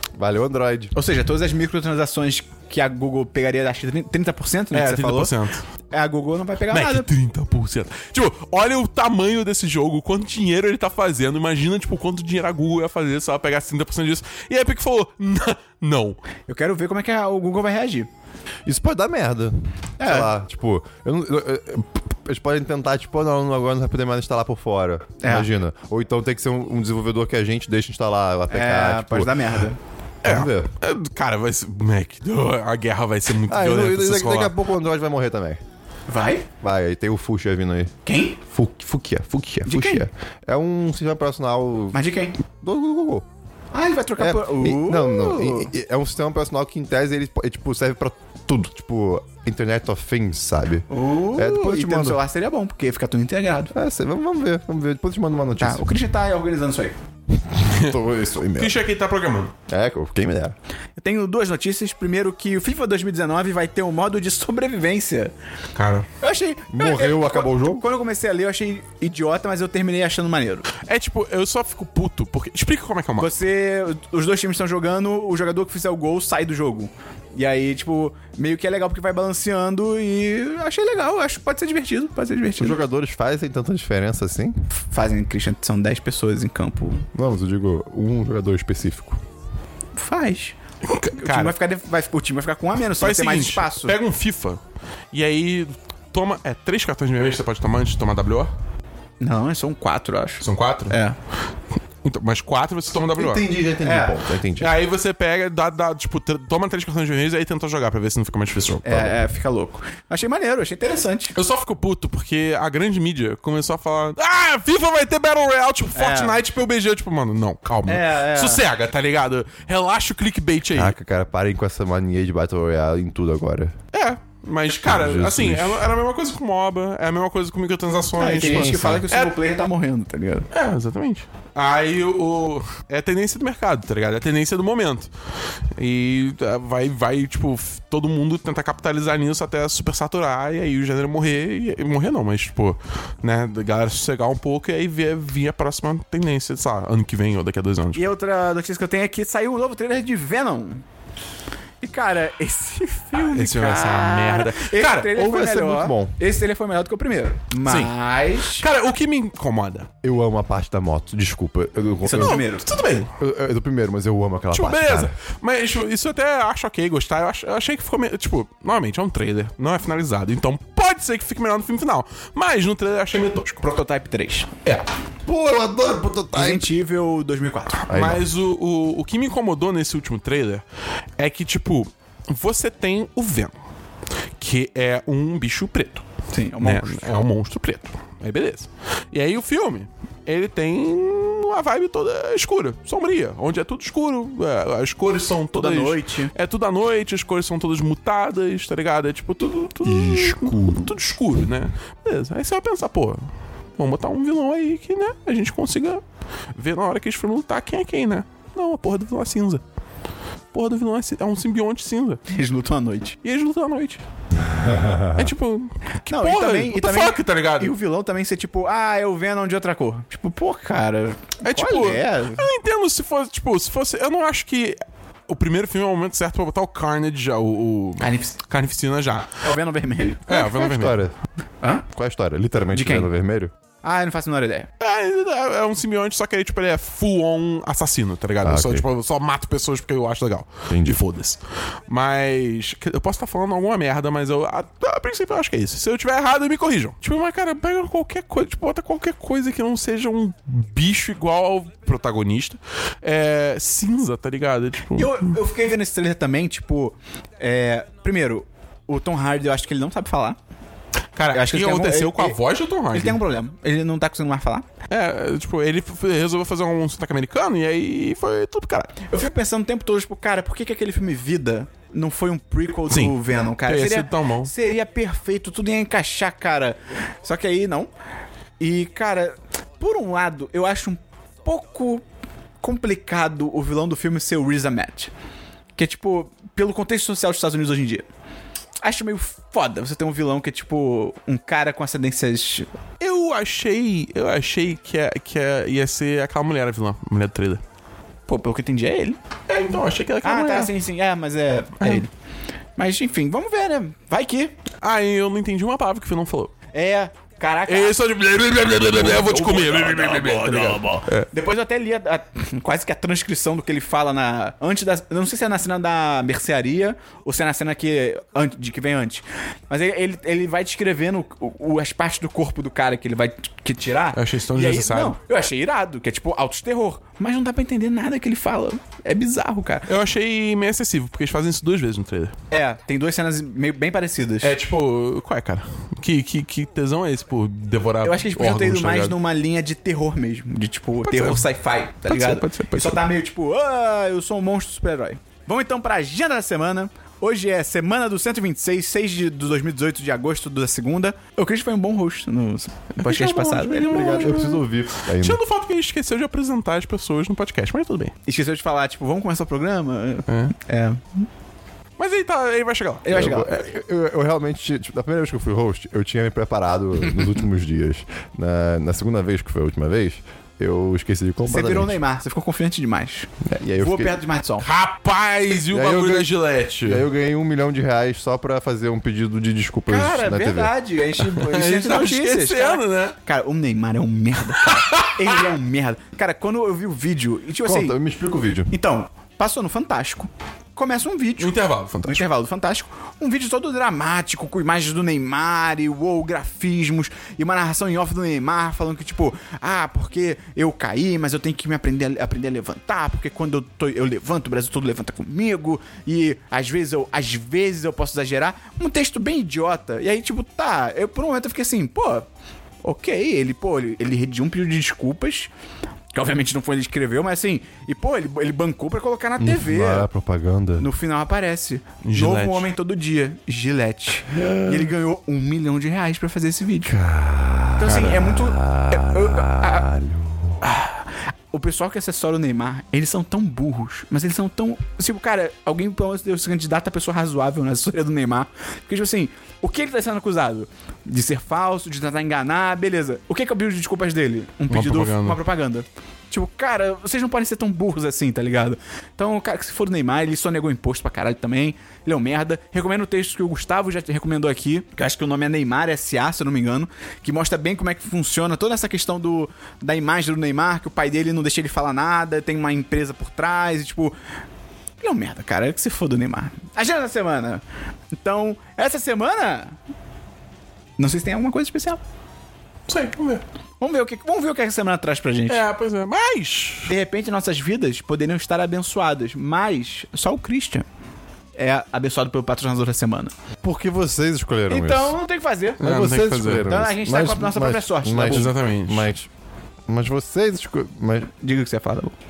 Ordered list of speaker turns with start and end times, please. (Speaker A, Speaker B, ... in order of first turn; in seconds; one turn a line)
Speaker A: 0.2-0.9
Speaker B: 0.9-5.3
Speaker C: 4.7-5.6
Speaker B: 5.9-7.1
Speaker C: 6.7-16.2
Speaker B: 16.5-18.1
Speaker A: 18.6-29.5
Speaker B: 20.0-20.3
Speaker B: 25.2-25.5
Speaker B: 28.5-29.8
Speaker C: 30.2-34.5
Speaker A: 30.2-30.7
Speaker A: 33.5-35.6
Speaker B: 36.1-36.5
Speaker A: 36.6-42.0
Speaker B: 38.0-38.4
Speaker B: 39.6-40.0
Speaker B: 41.9-42.4
Speaker A: 42.5-43.3
Speaker B: 43.7-45.7
Speaker A: 44.2-52.2
Speaker B: 50.9-53.7
Speaker A: 53.7-56.0
Speaker B: 55.6-57.0
Speaker A: 57.3-58.8
Speaker C: 57.6-58.0
Speaker C: 58.5-59.5
Speaker A: 59.7-60.5
Speaker B: 61.0-65.3
Speaker C: 65.7-66.1
Speaker B: 66.2-70.7
Speaker A: 66.7-67.8
Speaker C: 70.8-73.3
Speaker B: 73.2-82.8
Speaker A: 82.6-84.6
Speaker B: 84.7-87.0
Speaker A: 87.1-89.2
Speaker B: 90.0-90.5
Speaker C: 90.8-91.5
Speaker B: 91.2-93.9
Speaker C: 93.0-94.6
Speaker C: 95.1-98.5
Speaker B: 99.2-101.2
Speaker C: 100.4-101.0
Speaker C: 102.0-103.4
Speaker A: 103.2-104.8
Speaker B: 103.8-104.2
Speaker C: 104.6-109.2
Speaker B: 108.8-111.3
Speaker C: 111.3-120.9
Speaker B: 115.9-116.4
Speaker B: 117.9-118.6
Speaker A: 120.7-123.8
Speaker C: 123.9-129.3
Speaker A: 124.8-125.9
Speaker B: 128.2-130.5
Speaker A: 128.3-129.0
Speaker C: 130.5-135.1
Speaker C: 135.8-148.1
Speaker B: 147.9-150.8
Speaker B: 151.8-158.7
Speaker C: 153.1-155.1
Speaker A: 155.1-156.2
Speaker C: 157.6-157.9
Speaker C: 158.5-159.9
Speaker A: 160.0-162.4
Speaker B: 162.0-162.7
Speaker C: 162.2-163.1
Speaker A: 163.2-165.1
Speaker C: 164.5-173.6
Speaker B: 173.6-174.5
Speaker A: 175.2-176.7
Speaker B: 176.3-177.8
Speaker A: 177.9-178.3
Speaker C: 177.9-180.6
Speaker C: 181.2-183.5
Speaker C: 184.4-186.0
Speaker B: 186.3-187.1
Speaker C: 186.6-203.2
Speaker B: 195.5-196.3
Speaker A: 199.8-200.9
Speaker C: 203.8-206.0
Speaker C: 206.5-209.6
Speaker C: 210.5-212.2
Speaker B: 212.3-213.2
Speaker C: 213.2-214.0
Speaker A: 214.3-215.3
Speaker C: 215.1-217.7
Speaker B: 216.1-222.4
Speaker C: 221.4-229.4
Speaker B: 228.0-228.4
Speaker B: 229.4-230.6
Speaker C: 230.3-231.0
Speaker A: 230.6-231.1
Speaker A: 231.9-233.5
Speaker B: 232.7-233.1
Speaker B: 233.8-234.7
Speaker C: 234.8-255.3
Speaker A: 238.4-238.9
Speaker A: 240.7-241.0
Speaker B: 254.9-260.4
Speaker C: 261.1-263.2
Speaker B: 261.3-262.4
Speaker B: 262.9-264.7
Speaker C: 264.9-268.9
Speaker B: 269.1-277.9
Speaker C: 272.9-274.5
Speaker B: 278.6-282.0
Speaker B: 282.6-285.1
Speaker B: 285.8-288.1
Speaker B: 288.8-292.7
Speaker C: 293.0-297.6
Speaker B: 298.3-299.2
Speaker C: 299.5-300.7
Speaker B: 300.2-302.1
Speaker B: 302.8-304.6
Speaker C: 304.8-306.5
Speaker B: 306.7-307.9
Speaker C: 307.7-311.3
Speaker B: 308.8-329.9
Speaker C: 324.1-325.2
Speaker C: 329.9-332.3
Speaker B: 332.5-334.5
Speaker C: 334.4-339.2
Speaker B: 338.0-354.4
Speaker C: 341.0-341.5
Speaker C: 342.1-343.0
Speaker C: 352.9-358.1
Speaker A: 353.9-355.4
Speaker B: 358.2-361.3
Speaker C: 360.3-360.5
Speaker C: 362.0-363.3
Speaker B: 363.0-363.6
Speaker A: 363.1-372.0
Speaker B: 371.4-374.6
Speaker A: 373.4-374.2
Speaker C: 374.6-377.1
Speaker A: 375.7-376.3
Speaker A: 376.8-380.7
Speaker B: 379.9-387.9
Speaker C: 381.2-383.1
Speaker C: 384.6-385.3
Speaker A: 387.6-388.7
Speaker B: 388.7-412.3
Speaker C: 391.4-392.2
Speaker B: 412.8-415.5
Speaker B: 416.1-420.1
Speaker A: 419.4-420.9
Speaker B: 420.8-427.0
Speaker C: 422.0-422.7
Speaker A: 424.3-424.9
Speaker A: 426.9-430.6
Speaker B: 427.8-429.9
Speaker C: 427.9-428.1
Speaker B: 431.5-464.1
Speaker C: 444.7-445.4
Speaker B: 465.0-467.6
Speaker B: 468.2-469.8
Speaker B: 471.0-472.0
Speaker C: 472.9-473.4
Speaker B: 473.8-475.6
Speaker C: 475.5-476.9
Speaker B: 476.9-480.8
Speaker B: 481.6-483.3
Speaker A: 483.6-485.1
Speaker B: 484.7-485.8
Speaker C: 485.8-486.7
Speaker A: 485.8-489.3
Speaker B: 486.6-488.5
Speaker C: 488.1-489.1
Speaker A: 489.9-491.3
Speaker B: 491.4-492.1